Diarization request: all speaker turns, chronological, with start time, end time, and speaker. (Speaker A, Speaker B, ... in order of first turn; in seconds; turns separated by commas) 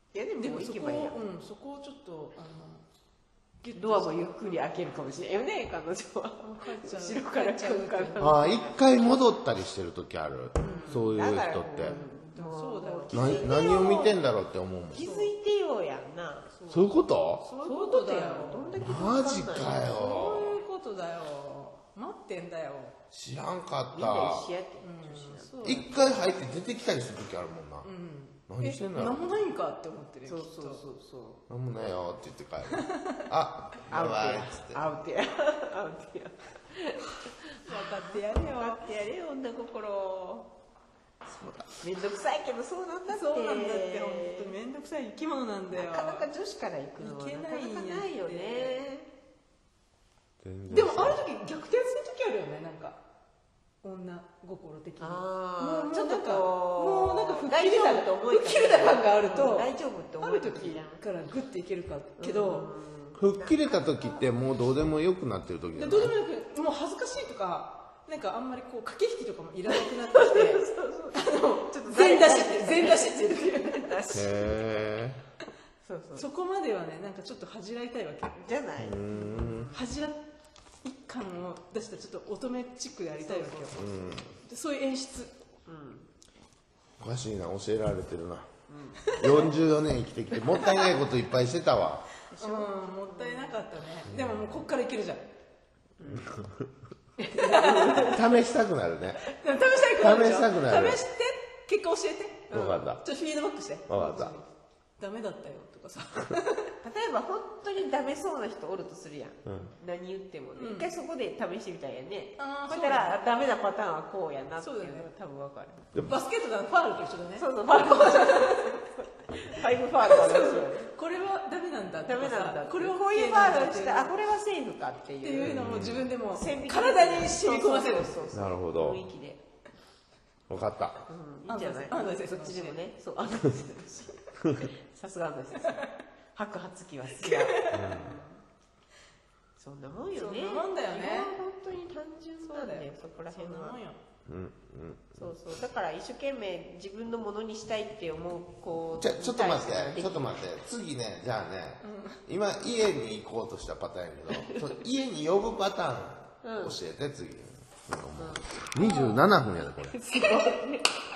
Speaker A: 0.1-1.2, Speaker B: 0.4-2.9, Speaker B: 3.6-4.7, Speaker A: 3.8-8.9, Speaker B: 6.4-8.4, Speaker C: 8.2-11.9, Speaker B: 10.6-11.0, Speaker A: 10.6-14.2, Speaker B: 11.8-13.6, Speaker C: 13.1-15.0, Speaker A: 14.9-16.8, Speaker B: 15.0-15.3, Speaker C: 16.7-17.4, Speaker B: 17.4-18.7, Speaker A: 17.6-20.4, Speaker C: 18.8-20.6, Speaker B: 19.7-23.0, Speaker C: 23.1-24.5, Speaker A: 23.9-26.3, Speaker B: 24.8-25.9, Speaker C: 25.6-27.9, Speaker B: 27.8-30.8, Speaker C: 28.5-29.4, Speaker A: 30.3-31.4, Speaker C: 31.5-34.8, Speaker B: 32.7-33.2, Speaker A: 33.9-40.5, Speaker B: 37.6-38.9, Speaker C: 41.3-41.7, Speaker A: 41.8-44.5, Speaker B: 43.1-46.3, Speaker A: 45.7-49.1, Speaker B: 47.0-48.8, Speaker C: 50.4-51.2, Speaker B: 50.7-53.0, Speaker B: 53.8-62.7, Speaker A: 55.0-61.0, Speaker A: 62.2-64.2, Speaker C: 63.2-66.1, Speaker B: 65.8-74.0, Speaker A: 70.0-74.5, Speaker C: 74.1-75.2, Speaker A: 75.8-76.3, Speaker B: 76.2-78.4, Speaker A: 78.3-79.8, Speaker C: 78.8-79.7, Speaker B: 79.7-80.2, Speaker B: 80.8-85.3, Speaker A: 83.2-83.9, Speaker C: 83.8-84.3, Speaker A: 85.7-86.1, Speaker C: 87.0-88.5, Speaker A: 88.7-89.6, Speaker B: 89.1-89.5, Speaker C: 89.2-92.1, Speaker A: 92.3-93.6, Speaker B: 92.4-95.2, Speaker C: 94.1-94.5, Speaker A: 96.0-96.4, Speaker C: 96.1-96.7, Speaker B: 97.2-98.2, Speaker A: 97.2-98.3, Speaker C: 98.1-99.2, Speaker B: 99.3-104.5, Speaker C: 100.0-101.0, Speaker A: 102.5-102.9, Speaker C: 102.5-103.0, Speaker C: 103.9-104.4, Speaker B: 105.0-106.7, Speaker A: 106.8-115.9, Speaker C: 109.5-109.7, Speaker B: 110.6-110.9, Speaker B: 112.4-113.2, Speaker B: 114.6-115.1, Speaker B: 116.0-118.8, Speaker A: 117.4-120.9, Speaker B: 119.5-124.1, Speaker A: 122.1-129.4, Speaker B: 125.2-128.2, Speaker C: 125.4-126.1, Speaker C: 128.3-129.0, Speaker C: 130.5-131.1, Speaker A: 131.1-138.4, Speaker B: 131.5-132.8, Speaker B: 137.2-137.9, Speaker C: 137.7-138.2, Speaker A: 139.6-143.8, Speaker B: 140.2-141.3, Speaker B: 142.4-144.0, Speaker C: 144.3-145.2, Speaker A: 145.2-150.4, Speaker C: 149.0-160.0, Speaker B: 151.8-152.2, Speaker A: 154.3-154.8, Speaker A: 156.4-156.8, Speaker A: 158.2-158.6, Speaker B: 158.8-159.2, Speaker A: 159.9-161.0, Speaker B: 160.1-160.6